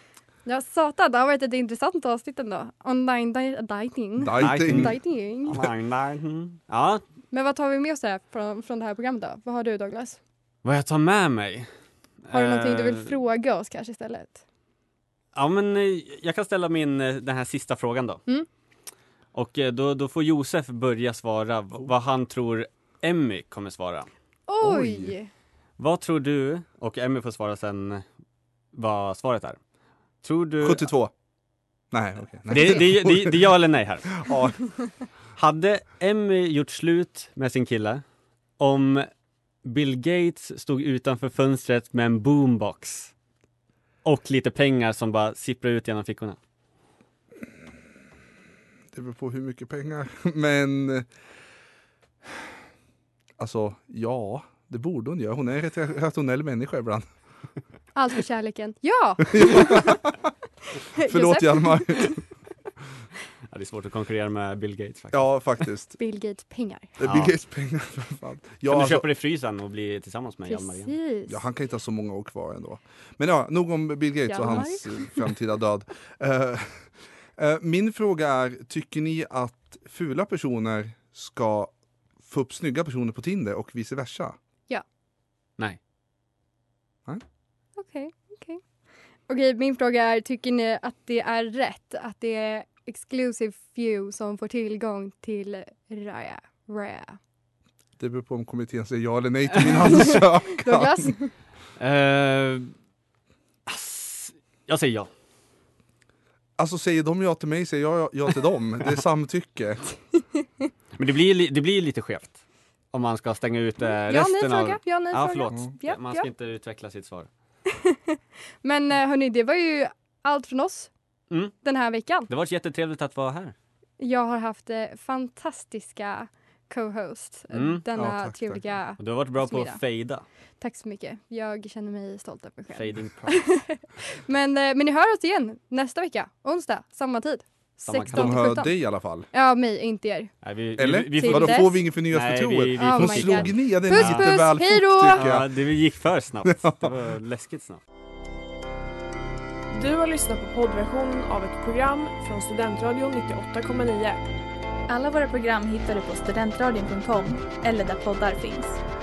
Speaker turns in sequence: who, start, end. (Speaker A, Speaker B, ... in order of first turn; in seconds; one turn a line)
Speaker A: 0.4-5.6
Speaker B: 4.2-4.9
Speaker C: 4.4-7.0
Speaker A: 7.3-10.2
Speaker C: 10.6-11.7
Speaker C: 12.3-13.1
Speaker A: 12.3-14.4
Speaker C: 15.3-18.2
Speaker C: 19.3-24.1
Speaker A: 24.5-25.3
Speaker B: 24.6-25.1
Speaker C: 25.8-28.0
Speaker C: 28.7-29.6
Speaker C: 30.2-30.9
Speaker B: 30.6-31.1
Speaker B: 31.9-33.4
Speaker C: 32.5-34.3
Speaker B: 34.2-34.6
Speaker C: 35.4-38.0
Speaker C: 38.6-39.1
Speaker C: 39.6-43.1
Speaker C: 44.0-46.4
Speaker B: 48.9-51.1
Speaker B: 53.4-57.1
Speaker A: 57.9-60.0
Speaker B: 59.3-60.1
Speaker A: 60.9-62.1
Speaker B: 61.0-62.2
Speaker C: 63.5-65.2
Speaker B: 65.1-66.0
Speaker A: 66.0-66.9
Speaker B: 67.0-69.0
Speaker C: 67.0-67.3
Speaker C: 68.7-70.9
Speaker A: 70.5-71.4
Speaker B: 71.3-81.7
Speaker A: 74.3-75.2
Speaker B: 82.2-84.4
Speaker A: 87.8-88.6
Speaker A: 89.3-97.2
Speaker B: 98.0-101.1
Speaker A: 99.9-101.3
Speaker C: 101.8-102.7
Speaker C: 103.7-105.1
Speaker B: 106.6-109.8
Speaker C: 111.0-112.4
Speaker C: 112.9-117.3
Speaker A: 113.9-116.3
Speaker A: 117.7-120.9
Speaker A: 121.6-122.3
Speaker C: 122.3-123.5
Speaker A: 124.0-129.8
Speaker C: 127.5-127.8
Speaker B: 127.9-128.6
Speaker C: 129.0-130.2
Speaker A: 130.6-138.7
Speaker C: 132.7-133.4
Speaker C: 137.8-138.5
Speaker B: 138.1-139.3
Speaker A: 139.3-140.3
Speaker C: 140.4-144.3
Speaker B: 140.8-145.5
Speaker A: 141.2-141.8
Speaker A: 142.8-145.2
Speaker C: 145.1-147.8
Speaker B: 146.5-146.9
Speaker D: 149.7-154.2
Speaker E: 154.9-158.8